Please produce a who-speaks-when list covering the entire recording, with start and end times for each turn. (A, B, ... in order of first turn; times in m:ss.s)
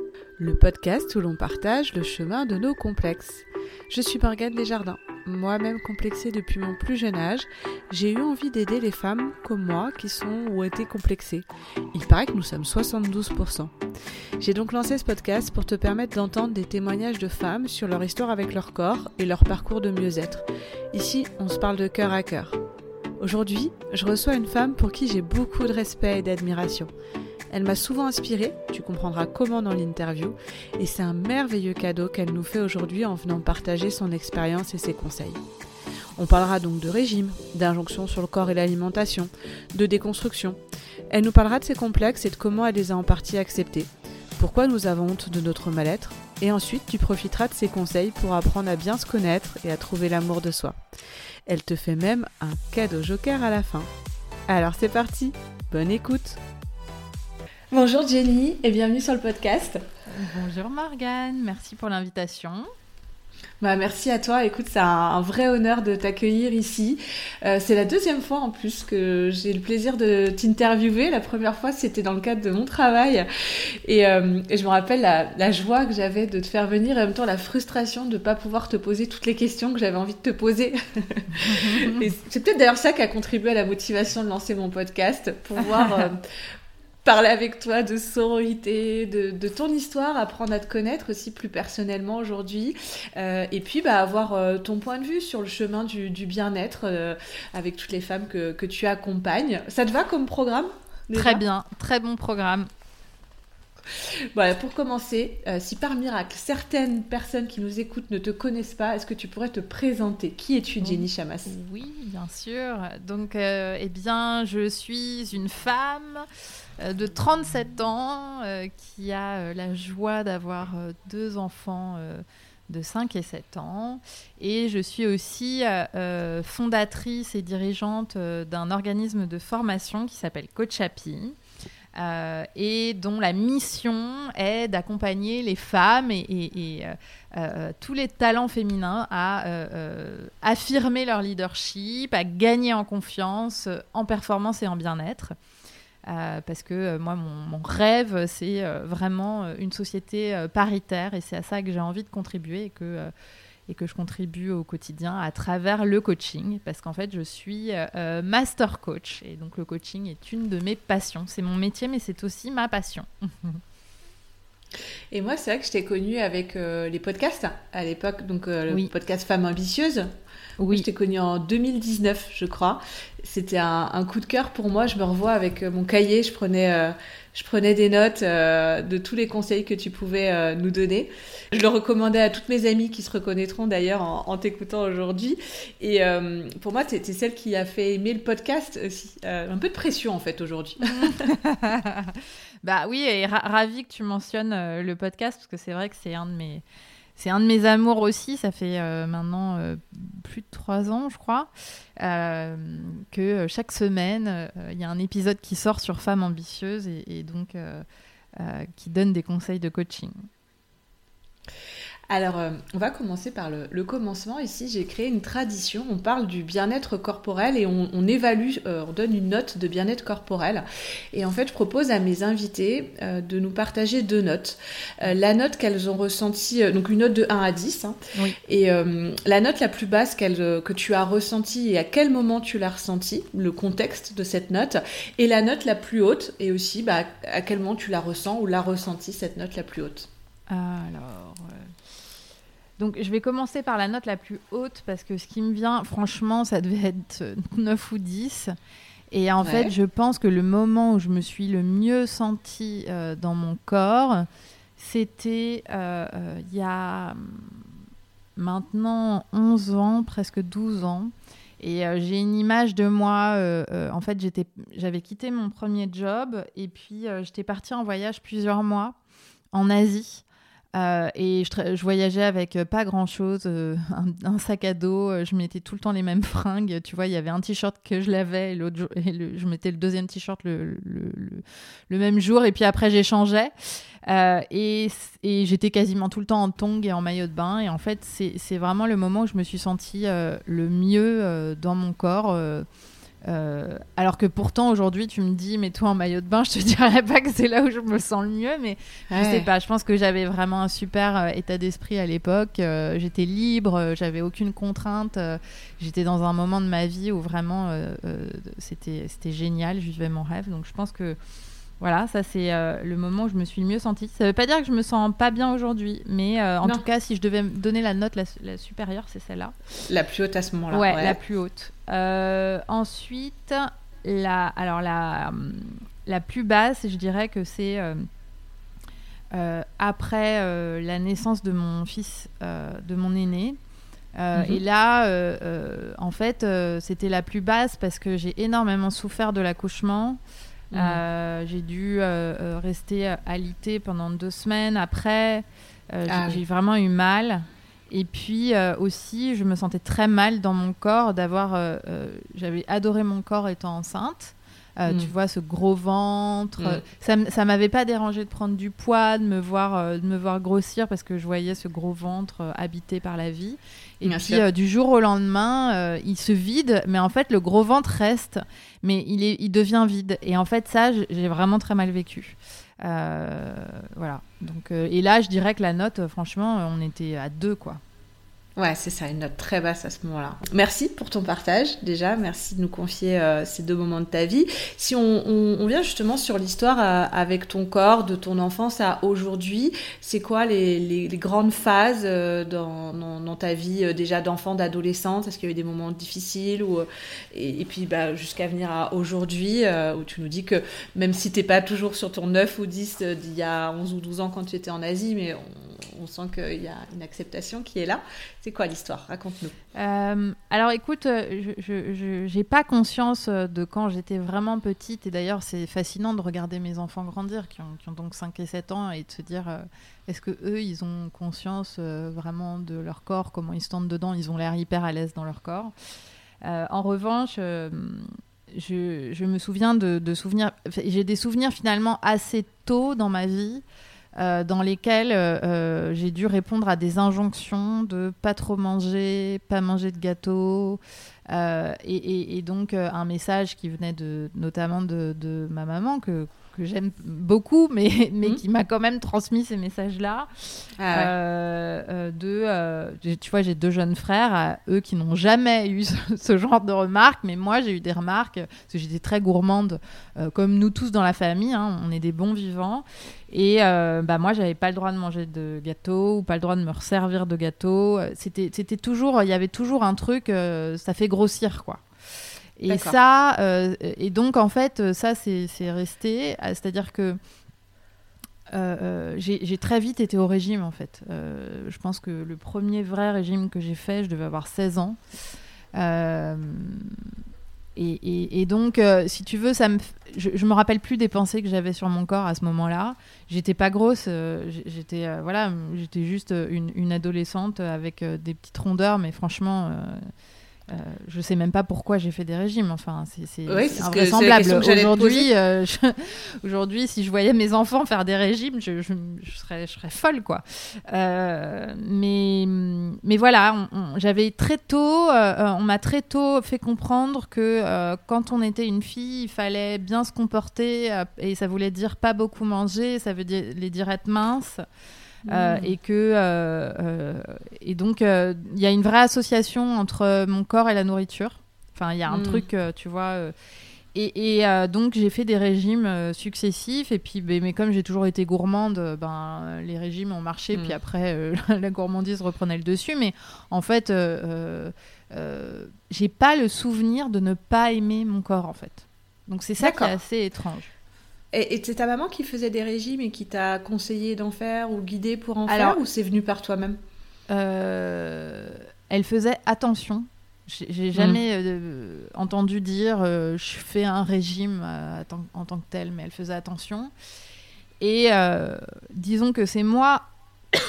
0:00.4-0:13.7 A
0:14.4-0:22.6 A
0:23.2-0:26.9 A
0:27.5-0:35.4 A
0:36.2-0:40.6 A
0:41.1-0:50.8 A
0:51.5-0:53.9 A
0:54.5-0:56.4 A
0:57.7-0:59.8 A
1:00.1-1:02.7 B
1:03.6-1:26.2 A
1:21.4-1:22.1 B
1:25.8-1:26.1 B
1:27.0-1:41.4 A
1:41.1-1:42.7 B
1:44.3-1:51.5 A
1:50.8-1:56.2 B
1:56.8-2:11.4 B
2:12.0-2:25.4 B
2:26.1-2:33.1 B
2:33.7-2:43.6 B
2:45.1-2:50.1 A
2:50.6-2:50.9 B
2:50.7-3:11.3 A
3:10.9-3:16.6 B
3:17.2-3:27.8 B
3:28.4-3:30.2 B
3:32.1-4:00.1 A
4:00.5-4:01.7 B
4:02.8-4:08.6 B
4:09.1-4:14.3 B
4:09.4-4:09.7 A
4:14.8-4:17.6 B
4:18.4-4:29.0 B
4:29.5-4:30.2 B
4:30.8-4:43.5 B
4:44.1-4:52.6 B
4:53.2-5:11.2 B
4:59.1-4:59.5 A
5:11.8-5:19.5 B
5:19.9-5:21.2 A
5:20.7-5:28.0 B
5:29.3-5:33.6 B
5:34.2-5:40.2 B
5:34.3-5:34.6 A
5:40.7-5:41.0 A
5:40.7-6:17.8 B
5:46.1-5:46.4 A
6:04.0-6:04.4 A
6:18.6-6:49.6 A
6:49.8-7:05.7 B
7:06.4-7:13.6 B
7:14.2-7:30.3 B
7:30.8-7:31.1 A
7:30.9-7:51.8 B
7:52.6-7:57.2 B
7:52.7-7:53.0 A
7:58.5-8:05.0 B
8:05.8-8:07.1 B
8:07.8-8:20.0 B
8:20.7-8:44.6 B
8:23.5-8:25.3 A
8:45.3-8:45.7 A
8:45.3-8:53.3 B
8:52.1-8:52.4 A
8:53.9-9:10.7 B
9:09.6-9:09.9 A
9:11.3-9:16.8 A
9:15.5-9:15.8 B
9:17.3-9:26.9 B
9:27.8-9:30.0 B